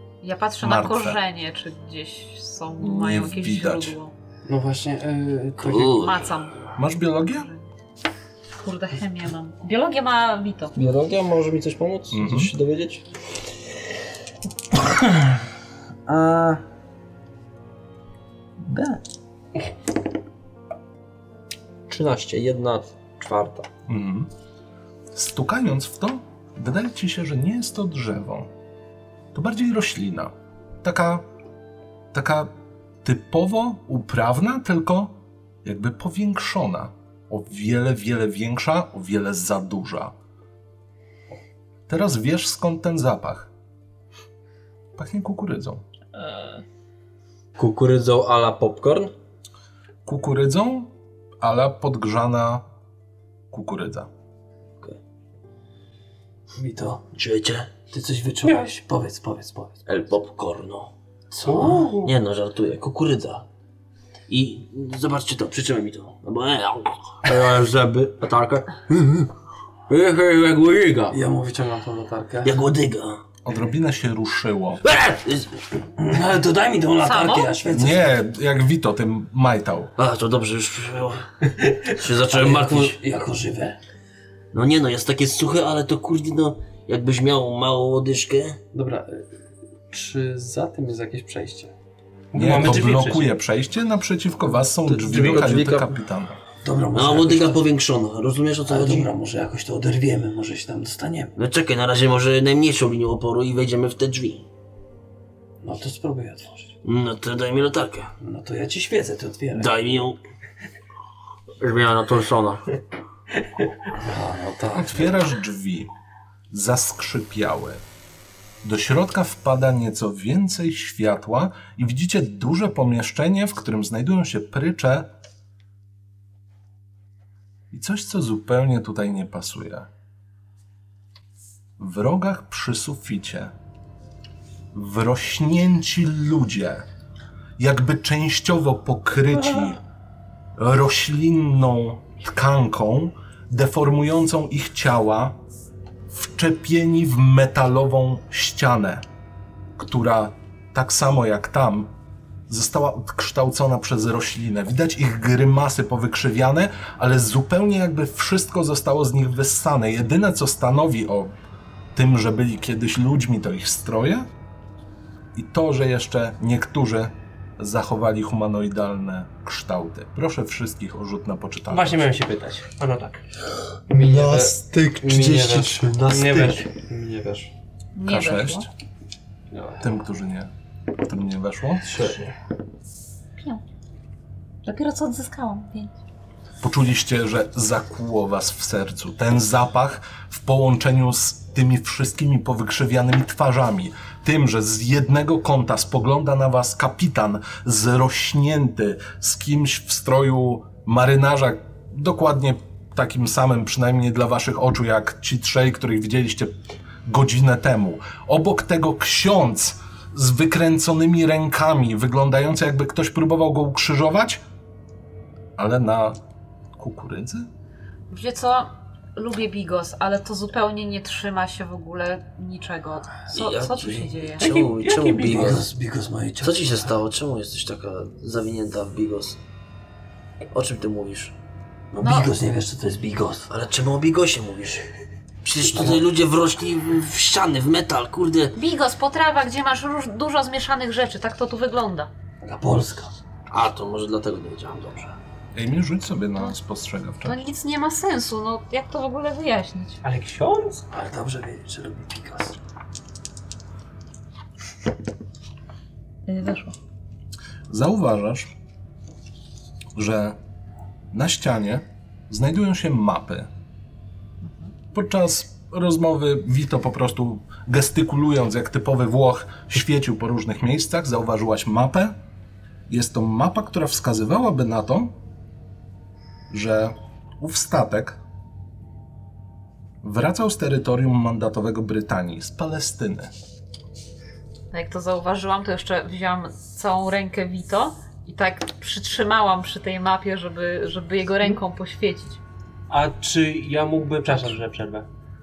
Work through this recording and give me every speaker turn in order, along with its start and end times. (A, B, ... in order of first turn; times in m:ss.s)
0:00.2-0:04.1 A
0:00.6-0:01.2 B
0:02.8-0:04.0 B
0:04.5-0:05.8 C
0:04.5-0:04.9 D
0:05.6-0:05.9 D
0:05.6-0:06.2 E
0:05.9-0:06.6 A
0:06.8-0:07.5 B
0:07.3-0:07.6 A
0:08.6-0:10.7 A
0:10.8-0:13.0 F
0:12.1-0:12.5 B
0:16.1-0:16.6 F
0:18.6-0:19.0 F
0:21.9-0:23.7 F
0:23.9-0:24.3 B
0:25.1-0:28.5 B
0:29.3-0:31.2 B
0:32.1-0:32.5 B
0:33.0-0:35.1 B
0:35.6-0:40.1 B
0:41.9-0:43.5 B
0:45.0-0:45.8 B
0:47.6-0:49.1 F
0:50.0-0:50.9 B
0:51.4-0:52.6 B
0:53.5-0:54.1 B
0:56.6-0:57.1 D
0:57.2-0:57.7 E
0:57.9-0:59.9 D
0:58.4-0:58.7 G
0:59.9-1:00.9 E
1:01.3-1:01.9 D
1:01.5-1:02.1 G
1:02.0-1:03.4 E
1:04.3-1:07.0 E
1:07.3-1:09.3 F
1:09.9-1:11.1 F
1:10.2-1:11.1 E
1:11.1-1:12.6 C
1:12.4-1:13.2 E
1:13.4-1:14.8 B
1:14.8-1:15.6 E
1:16.0-1:18.1 D
1:17.0-1:17.6 A
1:17.7-1:19.9 B
1:20.0-1:21.2 E
1:21.9-1:23.0 E
1:21.9-1:23.8 D
1:24.5-1:28.6 E
1:28.7-1:29.3 C
1:29.9-1:31.7 C
1:32.3-1:33.4 G
1:32.4-1:36.4 B
1:34.8-1:36.0 F
1:36.6-1:37.6 D
1:36.9-1:39.1 E
1:38.7-1:41.3 D
1:41.4-1:44.5 E
1:45.6-1:46.7 D
1:46.8-1:48.1 E
1:48.2-1:49.7 D
1:49.5-1:50.2 E
1:51.6-1:52.6 F
1:53.9-1:55.2 D
1:54.8-1:55.9 B
1:56.5-1:57.8 B
1:58.6-2:05.1 B
2:07.7-2:09.9 B
2:11.8-2:13.5 B
2:14.7-2:16.8 B
2:17.6-2:19.8 B
2:20.6-2:25.4 B
2:26.1-2:29.0 B
2:29.8-2:31.9 B
2:32.5-2:41.3 B
2:42.0-2:44.3 B
2:45.4-2:52.1 B
2:51.7-2:53.2 G
2:53.9-2:57.5 C
2:54.1-2:56.6 D
2:56.1-2:56.5 G
2:58.0-2:58.7 A
2:58.1-2:58.7 B
2:59.5-2:59.8 G
2:59.8-3:02.0 B
3:01.9-3:02.3 D
3:04.6-3:05.9 A
3:06.6-3:26.5 B
3:27.0-3:34.4 B
3:35.6-3:36.2 B
3:36.8-3:37.5 B
3:38.1-3:44.6 A
3:43.3-3:45.7 E
3:44.4-3:45.5 G
3:45.2-3:46.9 D
3:46.4-3:49.4 E
3:50.5-3:51.3 E
3:51.9-3:53.5 D
3:52.0-3:52.3 A
3:53.5-3:54.8 E
3:55.4-3:58.6 E
3:55.7-3:56.0 D
3:58.6-4:02.1 A
4:02.4-4:03.1 D
4:03.5-4:05.2 E
4:05.5-4:07.4 B
4:07.2-4:10.0 A
4:10.0-4:10.9 G
4:10.9-4:12.6 D
4:16.3-4:16.7 A
4:17.7-4:18.5 B
4:20.0-4:20.4 B
4:21.1-4:23.5 B
4:24.4-4:24.7 A
4:24.9-4:32.2 B
4:32.9-4:35.1 B
4:36.5-4:38.2 B
4:40.0-4:43.3 B
4:44.7-4:52.4 A
4:52.9-4:55.1 G
4:54.3-4:54.6 A